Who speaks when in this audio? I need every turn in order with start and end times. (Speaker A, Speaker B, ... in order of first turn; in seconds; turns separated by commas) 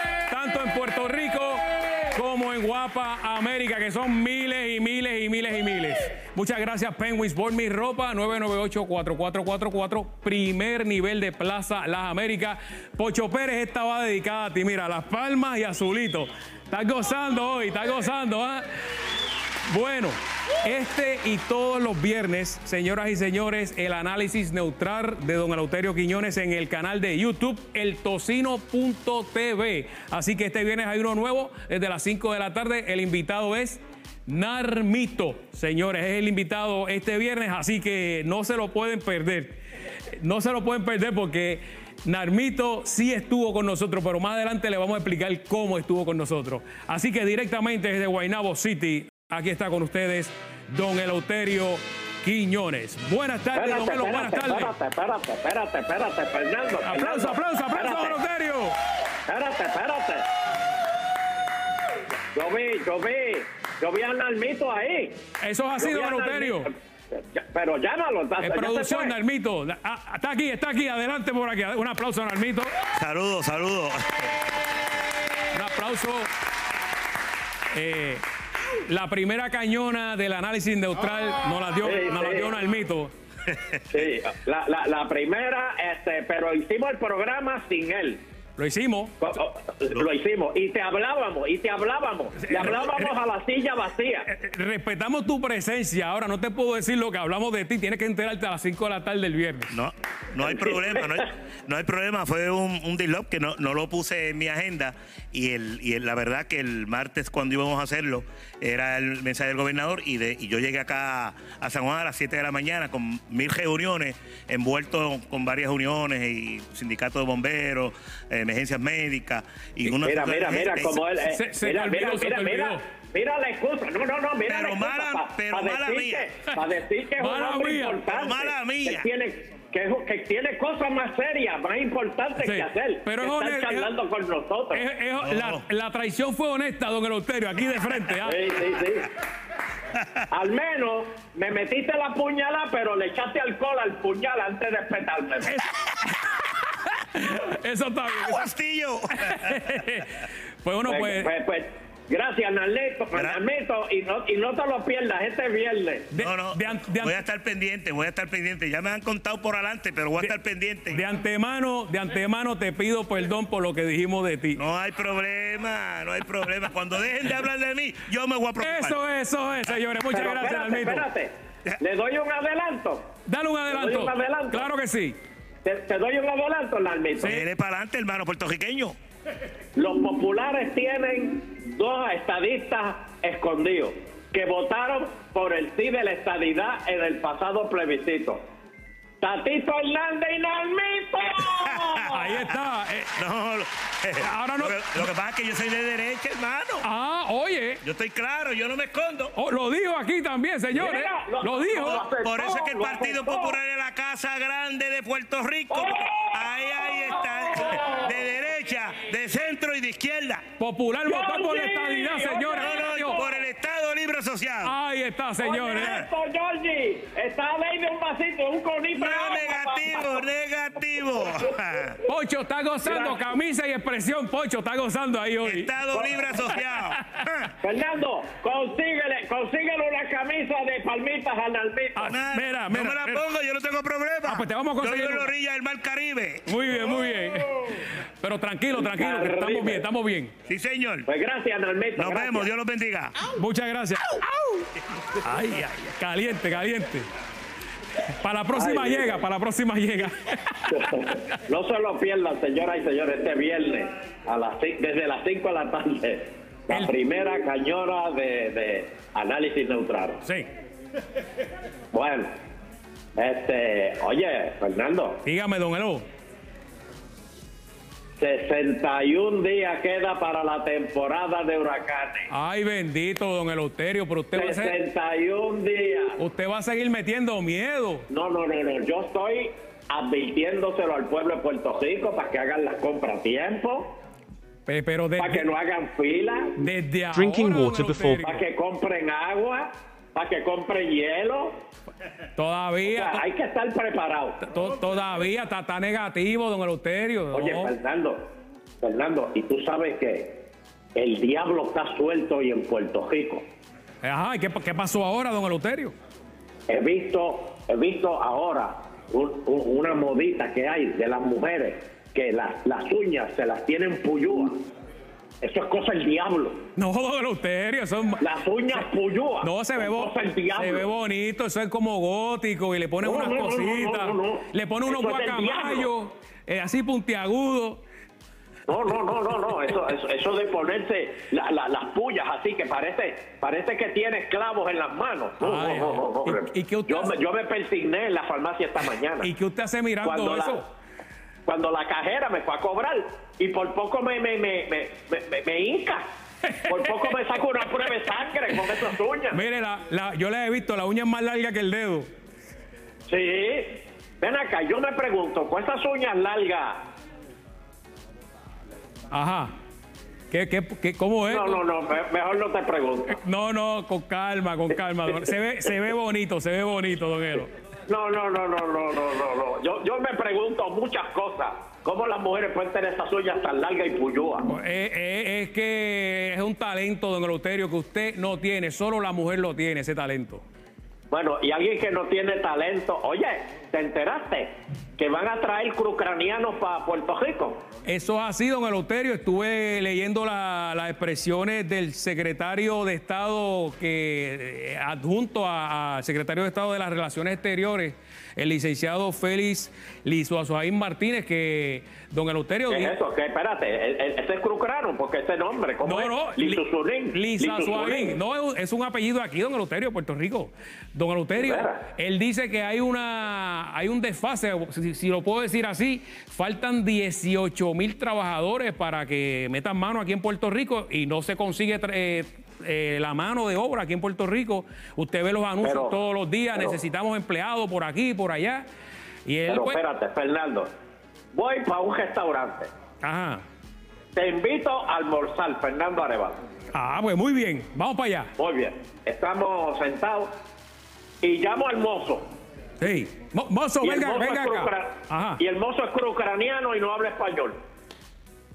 Speaker A: 0.3-1.6, Speaker A: 2.1-18.6, Speaker A: 19.7-39.6, Speaker A: 40.1-54.7, Speaker B: 53.5-58.2, Speaker A: 56.8-58.7, Speaker B: 59.3-60.3, Speaker B: 62.4-65.2, Speaker A: 65.4-66.7, Speaker B: 65.8-69.2, Speaker A: 68.4-72.7, Speaker C: 73.0-74.4, Speaker A: 75.5-76.3, Speaker A: 77.7-78.2, Speaker A: 78.8-83.1, Speaker B: 81.8-82.5, Speaker B: 83.9-88.2, Speaker A: 88.6-89.2, Speaker B: 89.2-94.3, Speaker A: 92.4-93.1, Speaker A: 94.3-99.8, Speaker C: 99.7-121.0, Speaker B: 100.4-100.8, Speaker B: 120.0-134.8, Speaker A: 121.3-122.8, Speaker C: 124.5-126.3, Speaker A: 127.2-128.0, Speaker C: 128.1-129.1, Speaker A: 132.4-133.9, Speaker A: 134.7-138.4, Speaker C: 135.2-135.6, Speaker B: 138.2-139.1, Speaker B: 140.3-145.5, Speaker A: 145.5-148.4, Speaker C: 148.2-149.8, Speaker A: 149.1-151.3, Speaker B: 150.8-156.1, Speaker C: 153.1-153.4, Speaker A: 156.1-157.2, Speaker C: 156.2-161.0, Speaker A: 160.9-164.6, Speaker C: 164.6-169.0, Speaker A: 168.6-171.1, Speaker B: 170.1-173.1, Speaker A: 173.3-175.2, Speaker B: 173.7-174.7, Speaker B: 175.7-177.4, Speaker C: 177.2-179.0, Speaker B: 179.8-188.4, Speaker B: 189.2-192.4, Speaker C: 191.6-192.0, Speaker A: 192.1-193.2, Speaker C: 193.2-196.8, Speaker A: 194.2-194.9, Speaker A: 196.8-197.8, Speaker C: 197.8-199.3, Speaker A: 199.3-202.1, Speaker B: 200.8-203.6, Speaker C: 202.1-210.4, Speaker B: 205.7-208.2, Speaker A: 210.6-213.2, Speaker B: 211.1-213.3, Speaker C: 212.6-214.7, Speaker A: 214.6-216.0, Speaker B: 215.4-220.2, Speaker C: 215.8-216.0, Speaker C: 219.0-222.0, Speaker A: 222.1-225.7, Speaker B: 222.8-223.2, Speaker C: 225.4-227.5, Speaker B: 225.9-226.3, Speaker B: 227.6-232.1, Speaker A: 232.0-233.2, Speaker C: 232.1-236.4, Speaker A: 234.3-235.3, Speaker A: 236.5-240.3, Speaker B: 238.8-239.8, Speaker C: 240.5-241.1, Speaker B: 241.1-242.5, Speaker C: 242.0-243.2, Speaker A: 243.3-244.2, Speaker A: 245.2-247.1, Speaker A: 248.1-251.1, Speaker B: 248.5-249.2, Speaker B: 250.7-260.2, Speaker B: 261.9-262.3, Speaker B: 263.2-265.2, Speaker A: 265.2-266.0, Speaker B: 268.2-272.3, Speaker A: 272.3-274.8, Speaker B: 274.4-276.2, Speaker A: 276.2-278.1, Speaker B: 278.1-283.9, Speaker A: 284.7-285.5, Speaker B: 285.2-286.5, Speaker A: 286.6-288.4, Speaker B: 288.2-291.6, Speaker A: 292.4-293.2, Speaker B: 292.8-294.4, Speaker A: 294.4-297.7, Speaker B: 297.3-298.2, Speaker B: 298.8-300.4, Speaker B: 300.9-303.4, Speaker A: 304.0-305.9, Speaker B: 306.7-314.6, Speaker B: 315.4-316.6, Speaker A: 316.8-318.2, Speaker B: 318.2-320.9, Speaker A: 319.4-327.8, Speaker B: 323.0-325.9, Speaker B: 328.7-339.3, Speaker A: 335.4-337.1, Speaker A: 339.2-340.6, Speaker B: 340.0-340.6, Speaker B: 341.5-346.0, Speaker A: 346.5-347.1, Speaker B: 346.7-349.4, Speaker A: 349.3-352.1, Speaker B: 353.1-356.8, Speaker A: 359.1-359.5, Speaker A: 360.3-361.6, Speaker B: 361.3-363.2, Speaker A: 363.1-367.5, Speaker B: 367.9-374.5, Speaker A: 374.5-380.4, Speaker B: 381.1-387.6, Speaker A: 387.9-402.9, Speaker B: 402.7-408.2, Speaker A: 405.8-428.6, Speaker B: 411.4-411.8, Speaker B: 425.6-426.0, Speaker A: 429.3-429.8, Speaker B: 429.5-430.7, Speaker B: 431.3-432.7, Speaker A: 433.0-433.4, Speaker B: 434.2-436.4, Speaker A: 436.7-438.3, Speaker B: 438.4-440.3, Speaker B: 441.2-442.3, Speaker A: 442.8-445.4, Speaker B: 443.8-447.6